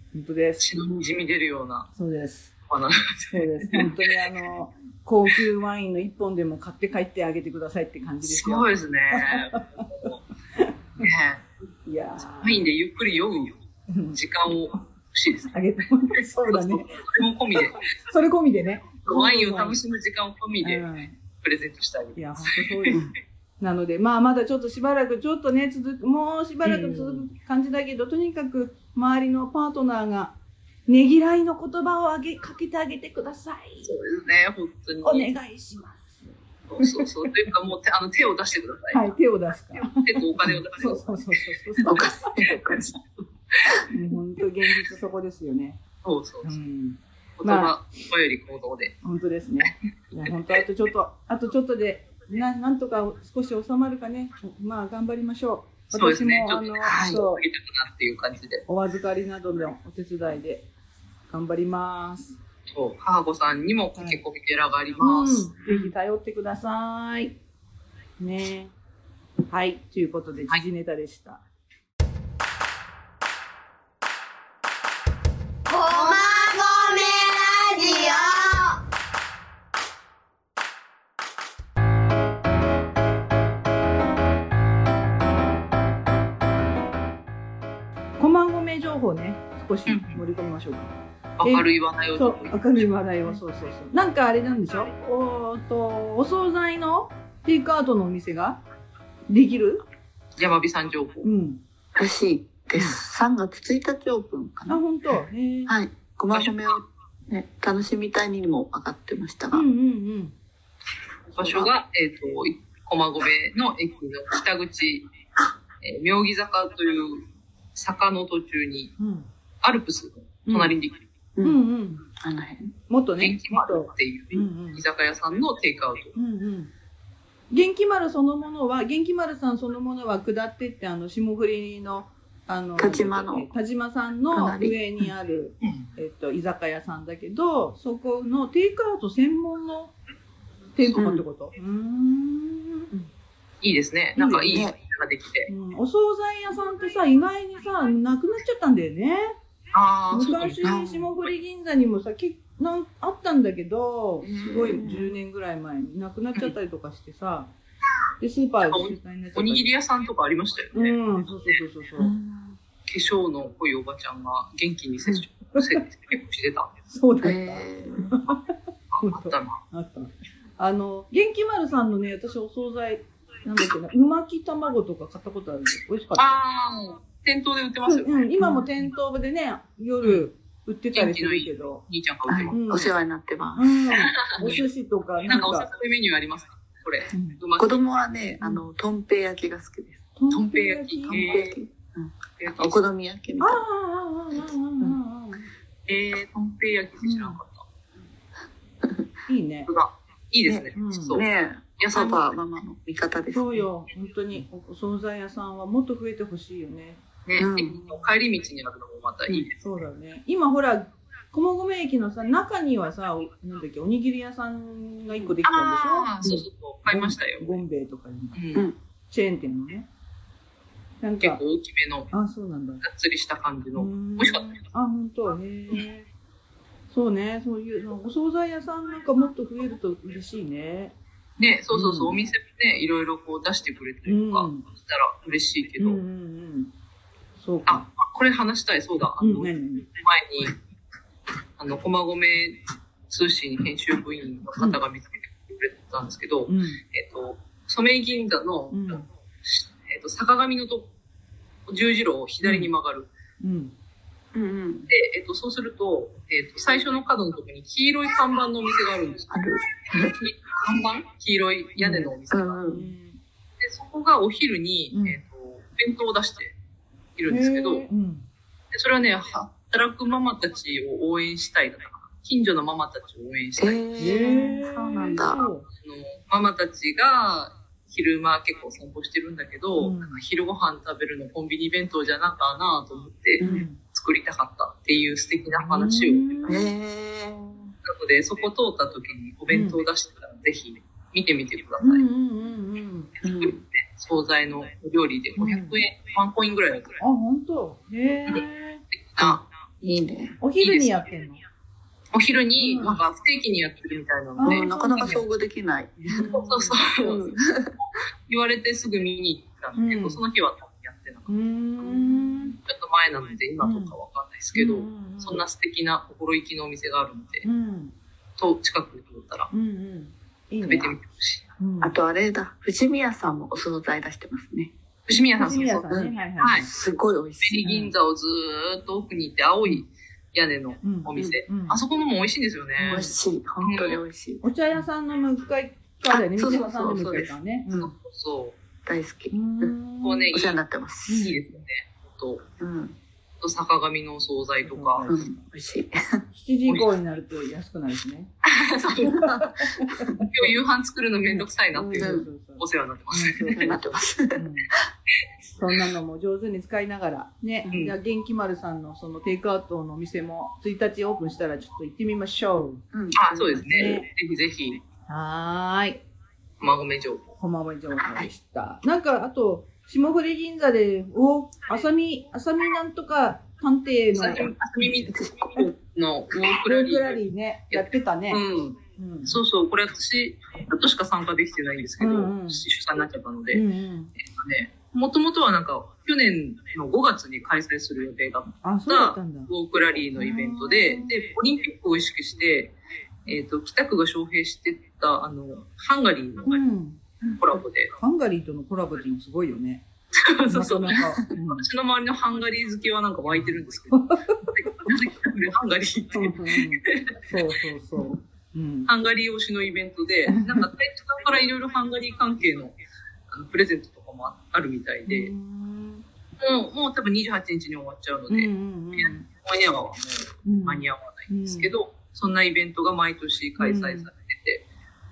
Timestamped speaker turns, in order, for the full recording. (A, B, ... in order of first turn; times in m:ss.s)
0:00.1-0:00.6 A
0:00.6-0:01.9 B
0:01.9-0:02.5 A
0:02.7-0:04.3 B
0:03.3-0:09.8 A
0:08.2-0:10.2 B
0:10.5-0:11.1 A
0:11.0-0:11.4 B
0:11.8-0:12.6 A
0:12.4-0:13.6 B
0:13.9-0:14.2 A
0:14.1-0:15.5 B
0:15.4-0:17.0 A
0:16.4-0:17.8 B
0:17.6-0:19.8 A
0:19.0-0:20.8 B
0:20.6-0:21.2 A
0:21.4-0:23.0 B
0:22.2-0:23.0 A
0:23.6-0:30.3 A
0:26.6-0:27.2 B
0:30.9-0:33.9 A
0:33.8-0:35.3 B
0:35.0-0:37.1 A
0:36.7-0:39.0 B
0:38.9-0:42.3 A
0:39.8-0:41.2 B
0:41.8-0:43.0 C
0:43.9-0:45.8 A
0:46.0-0:46.6 B
0:46.4-0:47.8 A
0:47.4-0:48.9 B
0:49.0-0:57.4 A
0:55.9-0:58.6 B
0:56.8-0:57.2 C
0:58.7-1:00.6 A
1:01.3-1:02.4 A
1:02.7-1:05.5 B
1:04.0-1:04.2 A
1:05.0-1:07.3 A
1:08.2-1:08.7 A
1:09.5-1:11.4 A
1:15.7-1:18.8 D
1:28.2-1:38.6 A
1:29.9-1:30.2 B
1:31.4-1:32.8 B
1:39.3-1:39.8 A
1:40.4-1:41.2 B
1:41.2-1:41.6 A
1:41.9-1:44.8 C
1:44.7-1:45.7 A
1:45.7-1:49.6 C
1:46.3-1:46.7 B
1:49.5-1:50.3 A
1:51.4-1:55.0 B
1:51.4-1:51.7 C
1:55.8-1:58.9 B
1:59.0-1:59.3 A
1:59.6-2:01.0 B
2:00.4-2:00.8 A
2:01.4-2:02.0 A
2:02.2-2:02.7 C
2:02.9-2:04.8 A
2:03.2-2:06.1 B
2:06.2-2:06.7 A
2:07.5-2:19.9 A
2:12.8-2:13.5 C
2:14.3-2:14.8 C
2:20.7-2:23.1 A
2:21.0-2:21.2 C
2:23.6-2:25.5 B
2:24.2-2:24.6 A
2:24.5-2:24.8 C
2:25.5-2:29.3 A
2:29.7-2:30.6 B
2:30.1-2:37.5 A
2:30.6-2:31.1 C
2:34.2-2:35.1 C
2:38.2-2:39.6 A
2:38.6-2:41.6 B
2:40.7-2:42.1 A
2:42.0-2:42.6 C
2:42.9-2:46.7 B
2:46.9-2:56.4 A
2:47.2-2:48.2 C
2:48.9-2:49.6 B
2:56.1-2:58.2 B
2:57.9-3:01.8 A
3:00.0-3:00.3 B
3:00.9-3:02.7 B
3:02.3-3:03.8 C
3:02.5-3:02.9 A
3:03.5-3:05.7 A
3:03.9-3:04.6 B
3:05.3-3:07.8 B
3:07.1-3:07.4 A
3:07.6-3:10.1 C
3:10.2-3:11.4 A
3:10.3-3:11.5 B
3:11.1-3:13.6 C
3:12.4-3:12.8 B
3:13.4-3:15.5 A
3:15.9-3:17.6 B
3:17.0-3:17.4 A
3:18.8-3:19.1 C
3:19.3-3:19.7 A
3:19.7-3:21.2 B
3:20.5-3:23.6 C
3:20.8-3:21.2 A
3:21.8-3:22.3 B
3:23.3-3:27.0 A
3:27.2-3:29.6 B
3:27.4-3:27.7 C
3:27.6-3:28.1 A
3:29.6-3:38.4 A
3:35.4-3:37.6 B
3:38.3-3:38.6 B
3:39.1-3:39.9 A
3:41.0-3:41.4 A
3:41.2-3:42.1 B
3:42.1-3:42.8 A
3:42.8-3:44.6 B
3:43.8-3:46.1 A
3:46.9-3:50.9 A
3:51.4-3:56.0 B
3:51.7-3:52.2 A
3:54.0-3:54.6 A
3:55.8-3:56.7 A
3:57.4-3:57.9 A
3:57.7-4:00.5 B
3:59.2-3:59.8 A
4:01.6-4:10.9 B
4:06.5-4:06.8 A
4:08.7-4:09.0 A
4:11.7-4:13.1 B
4:12.4-4:12.7 A
4:13.4-4:13.7 A
4:14.3-4:14.9 C
4:14.9-4:19.3 B
4:19.3-4:20.3 C
4:20.1-4:22.7 B
4:21.8-4:22.1 A
4:21.9-4:22.8 C
4:22.7-4:23.2 A
4:23.6-4:26.5 B
4:24.9-4:25.2 A
4:27.2-4:27.9 B
4:27.3-4:28.2 A
4:28.7-4:33.8 B
4:33.6-4:35.4 C
4:34.0-4:35.6 A
4:35.8-4:46.3 B
4:39.8-4:40.2 A
4:43.4-4:43.6 C
4:43.4-4:43.8 A
4:45.6-4:46.6 A
4:46.4-4:47.7 C
4:47.8-4:52.0 B
4:49.5-4:49.8 A
4:51.8-4:53.1 A
4:53.2-4:53.6 C
4:53.3-4:56.9 B
4:55.4-4:55.8 A
4:57.0-4:58.8 A
4:58.9-4:59.4 B
4:59.2-5:00.4 C
5:00.4-5:01.4 A
5:00.6-5:01.0 B
5:02.1-5:05.2 B
5:02.6-5:03.0 A
5:04.4-5:05.2 A
5:04.4-5:06.4 C
5:06.1-5:06.8 A
5:06.2-5:11.3 B
5:07.0-5:07.7 C
5:09.8-5:10.2 A
5:11.3-5:12.6 A
5:11.8-5:12.4 C
5:12.6-5:17.4 B
5:13.6-5:14.0 A
5:14.5-5:15.4 A
5:17.4-5:17.9 A
5:18.4-5:19.5 B
5:19.5-5:20.9 A
5:20.6-5:21.4 B
5:21.6-5:21.9 A
5:21.8-5:24.7 C
5:25.1-5:25.9 B
5:25.4-5:26.7 A
5:25.8-5:27.6 C
5:26.4-5:26.7 B
5:27.4-5:33.0 B
5:27.6-5:27.9 A
5:30.8-5:31.8 A
5:32.8-5:33.2 A
5:32.9-5:34.5 C
5:33.6-5:34.0 B
5:34.4-5:37.9 A
5:36.1-5:37.8 C
5:37.7-5:38.5 B
5:38.8-5:39.7 C
5:39.3-5:40.3 A
5:40.0-5:42.4 B
5:40.3-5:41.2 C
5:41.1-5:41.4 A
5:42.6-5:43.0 C
5:43.4-5:45.1 B
5:44.6-5:45.3 A
5:45.1-5:46.2 C
5:46.3-5:48.3 A
5:48.5-5:49.2 B
5:48.9-5:50.2 C
5:49.2-5:50.3 A
5:50.2-5:54.0 B
5:51.3-5:54.7 A
5:51.7-5:52.2 C
5:53.6-5:54.9 C
5:55.6-6:02.8 A
5:57.7-5:57.9 B
6:02.9-6:04.0 C
6:03.1-6:04.8 B
6:03.6-6:04.0 A
6:05.1-6:06.0 A
6:06.6-6:07.3 B
6:07.4-6:14.5 A
6:08.0-6:08.3 C
6:14.1-6:23.6 B
6:15.2-6:15.6 C
6:16.5-6:19.4 A
6:22.0-6:22.6 A
6:23.5-6:24.1 A
6:24.2-6:32.7 B
6:28.6-6:29.5 A
6:30.1-6:31.1 A
6:33.2-6:36.6 B
6:36.4-6:37.0 A
6:37.4-6:37.9 B
6:37.9-6:39.8 A
6:40.2-6:47.2 B
6:40.5-6:41.7 A
6:43.9-6:44.4 A
6:46.1-6:48.9 A
6:48.8-6:52.8 B
6:50.3-6:50.7 A
6:53.3-6:55.3 B
6:55.0-6:56.0 A
6:56.4-7:04.6 B
6:58.3-6:59.2 A
7:00.4-7:01.7 A
7:03.6-7:04.1 A